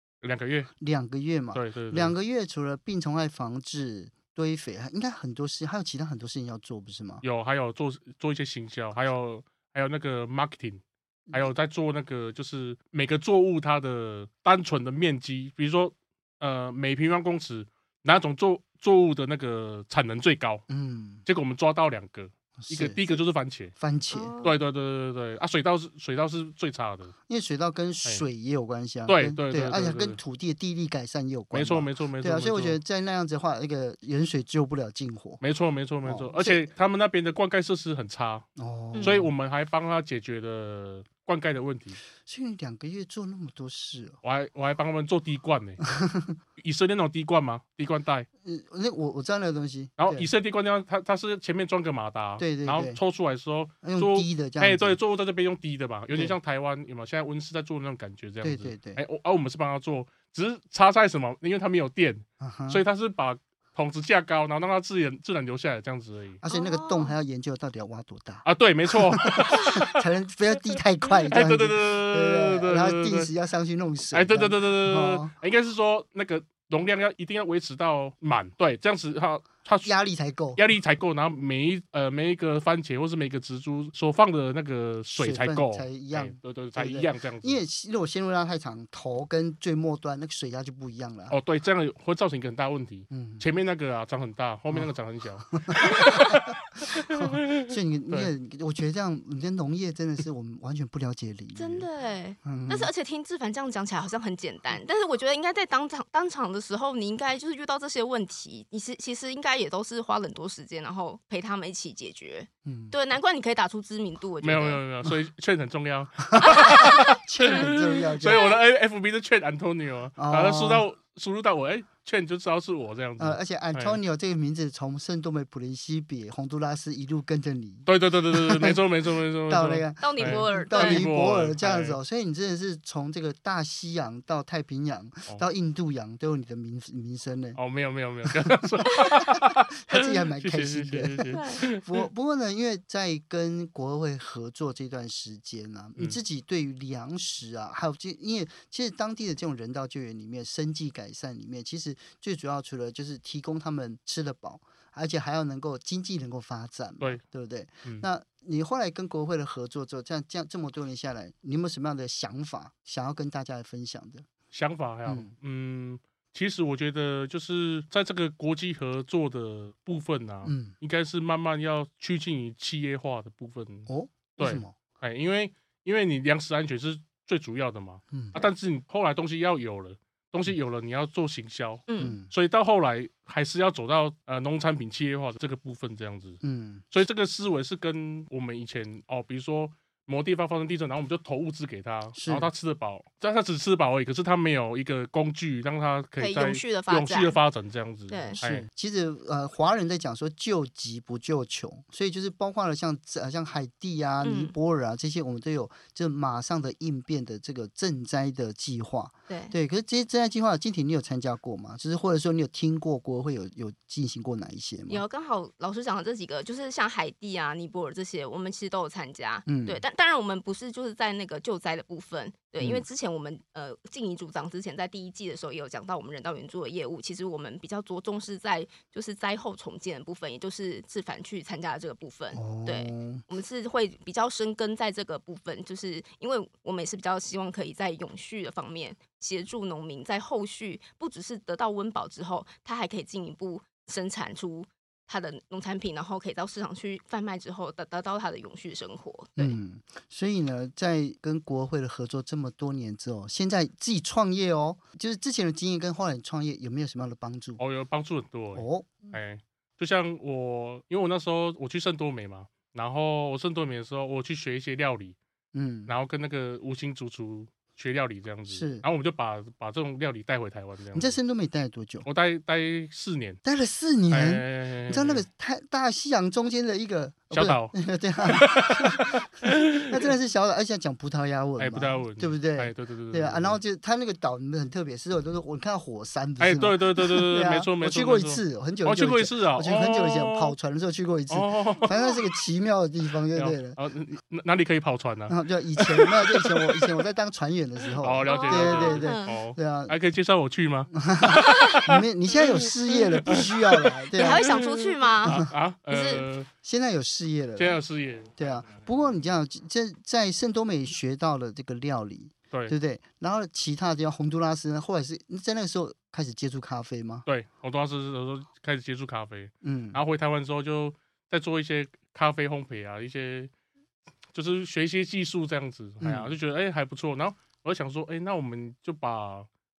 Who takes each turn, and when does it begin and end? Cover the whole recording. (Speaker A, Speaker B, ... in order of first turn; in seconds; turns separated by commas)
Speaker A: 0.2-0.7, Speaker B: 0.8-7.2, Speaker A: 1.5-2.1, Speaker A: 7.2-20.6, Speaker B: 20.7-21.2, Speaker A: 21.3-23.7, Speaker B: 22.6-23.2, Speaker B: 23.8-24.3, Speaker C: 24.1-24.5, Speaker A: 24.4-27.1, Speaker B: 27.3-35.4, Speaker A: 29.1-30.2, Speaker A: 31.5-32.8, Speaker A: 35.4-38.5, Speaker B: 36.0-36.7, Speaker B: 38.6-39.3, Speaker A: 39.0-42.0, Speaker B: 42.2-44.2, Speaker A: 44.2-45.9, Speaker B: 45.9-46.4, Speaker A: 46.6-48.3, Speaker B: 48.4-50.3, Speaker A: 50.0-66.4, Speaker B: 52.4-53.0, Speaker B: 53.8-55.0, Speaker B: 58.4-59.0, Speaker B: 62.4-62.8, Speaker B: 66.4-75.3, Speaker C: 66.5-67.1, Speaker A: 68.5-70.0, Speaker A: 71.2-73.3, Speaker A: 74.1-80.0, Speaker B: 79.8-80.6, Speaker A: 80.6-87.6, Speaker B: 85.2-91.4, Speaker A: 91.3-98.3, Speaker B: 93.1-93.5, Speaker B: 95.5-96.4, Speaker B: 97.0-101.9, Speaker C: 101.5-114.8, Speaker B: 102.4-102.9, Speaker B: 112.7-113.0, Speaker A: 114.4-124.0, Speaker B: 116.3-118.4, Speaker C: 118.2-118.6, Speaker B: 120.2-120.8, Speaker B: 123.2-128.8, Speaker A: 127.9-132.0, Speaker B: 129.5-137.6, Speaker C: 130.0-131.0, Speaker A: 137.6-142.1, Speaker B: 138.3-164.3, Speaker C: 141.3-141.6, Speaker A: 164.5-198.7, Speaker B: 165.1-165.3, Speaker B: 170.4-170.7, Speaker B: 173.9-174.8, Speaker B: 178.1-178.4, Speaker C: 181.9-182.2, Speaker B: 182.0-182.3, Speaker B: 186.4-186.8, Speaker B: 192.2-192.5, Speaker C: 196.2-197.4, Speaker C: 198.1-198.4, Speaker B: 198.4-215.0, Speaker C: 204.2-204.6, Speaker C: 209.3-209.6, Speaker C: 214.9-249.6, Speaker B: 219.5-219.8, Speaker B: 232.3-233.2, Speaker B: 249.4-257.6, Speaker A: 257.6-265.2, Speaker B: 258.6-259.0, Speaker B: 265.5-265.9, Speaker A: 265.9-271.2, Speaker B: 268.5-268.9, Speaker B: 270.9-272.1, Speaker A: 272.1-273.4, Speaker B: 273.4-279.1, Speaker A: 274.1-275.2, Speaker A: 277.3-277.8, Speaker A: 278.3-280.0, Speaker B: 279.9-293.8, Speaker A: 281.6-283.6, Speaker A: 286.4-290.6, Speaker A: 291.3-291.9, Speaker A: 293.4-296.9, Speaker B: 295.3-299.9, Speaker A: 298.0-304.5, Speaker C: 298.3-299.4, Speaker B: 300.9-304.5, Speaker C: 304.2-306.3, Speaker B: 305.2-305.5, Speaker A: 305.2-306.5, Speaker B: 306.6-307.8, Speaker A: 307.6-309.0, Speaker B: 308.4-317.3, Speaker A: 317.3-323.5, Speaker B: 319.6-320.0, Speaker A: 324.3-329.5, Speaker B: 326.0-326.4